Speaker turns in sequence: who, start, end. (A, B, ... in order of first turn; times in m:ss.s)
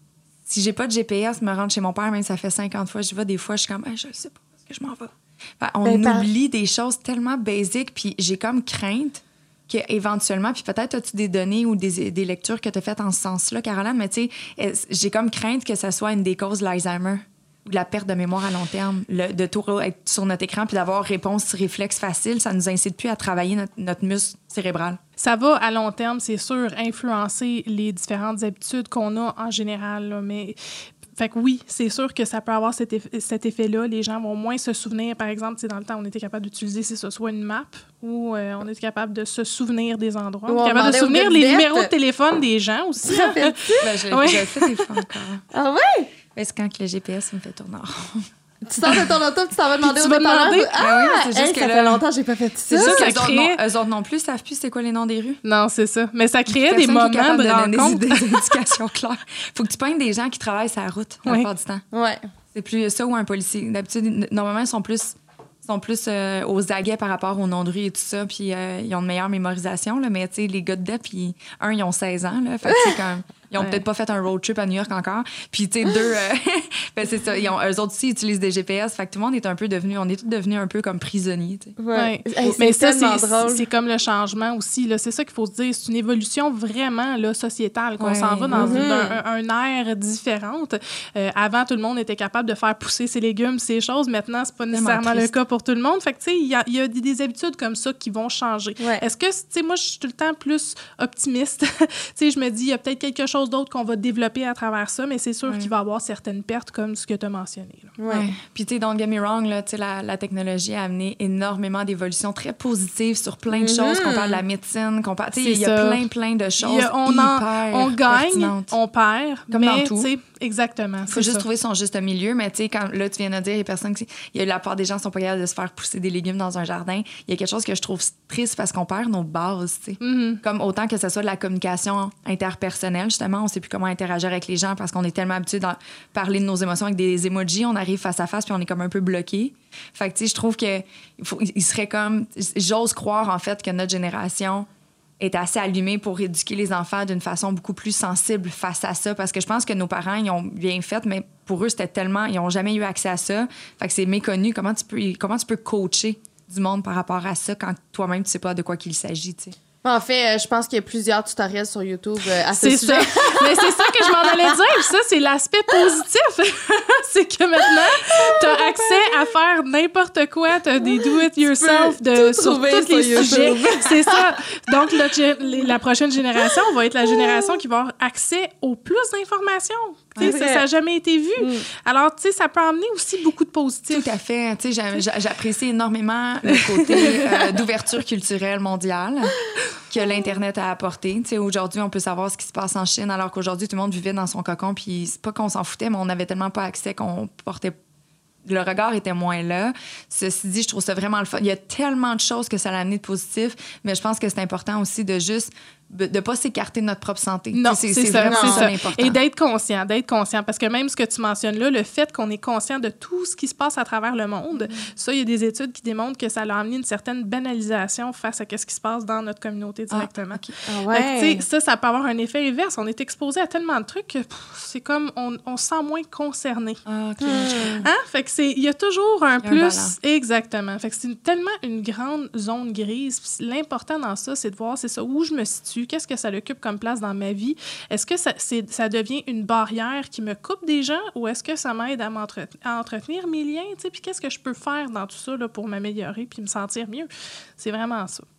0:00.5-0:25.0 A
0:05.8-0:06.3 B
0:25.2-0:30.6 C
0:31.1-0:45.0 C
0:40.5-0:41.9 B
0:43.0-0:43.9 B
0:43.8-0:45.4 A
0:45.5-0:46.1 B
0:46.4-0:48.3 A
0:48.7-0:53.1 B
0:49.8-0:50.7 C
0:50.8-0:52.0 A
0:52.7-0:53.6 C
0:52.8-0:55.4 A
0:55.4-0:58.6 C
0:56.5-1:01.8 A
1:01.9-1:02.2 B
1:02.5-1:21.8 A
1:13.6-1:13.8 C
1:21.8-1:23.6 B
1:21.9-1:48.0 C
1:28.0-1:28.9 A
1:28.5-1:29.2 B
1:34.7-1:35.3 A
1:45.5-1:45.7 A
1:48.0-1:48.3 B
1:48.1-1:58.7 A
1:53.5-1:54.4 B
1:55.4-1:56.0 C
1:56.6-2:01.4 C
1:59.5-2:00.1 A
2:01.1-2:24.7 A
2:10.0-2:10.4 C
2:25.2-2:39.6 A
2:39.8-2:44.6 B
2:42.5-3:04.1 C
2:48.0-2:49.2 B
2:50.9-2:54.4 B
3:00.2-3:00.6 B
3:01.4-3:01.6 B
3:03.9-3:17.8 A
3:06.5-3:07.6 C
3:18.4-3:29.2 A
3:27.5-3:46.8 C
3:28.2-3:28.7 B
3:39.9-3:40.5 A
3:40.7-3:41.4 B
3:46.9-3:47.8 A
3:47.2-3:47.9 B
3:47.8-4:08.2 C
3:49.4-3:50.0 A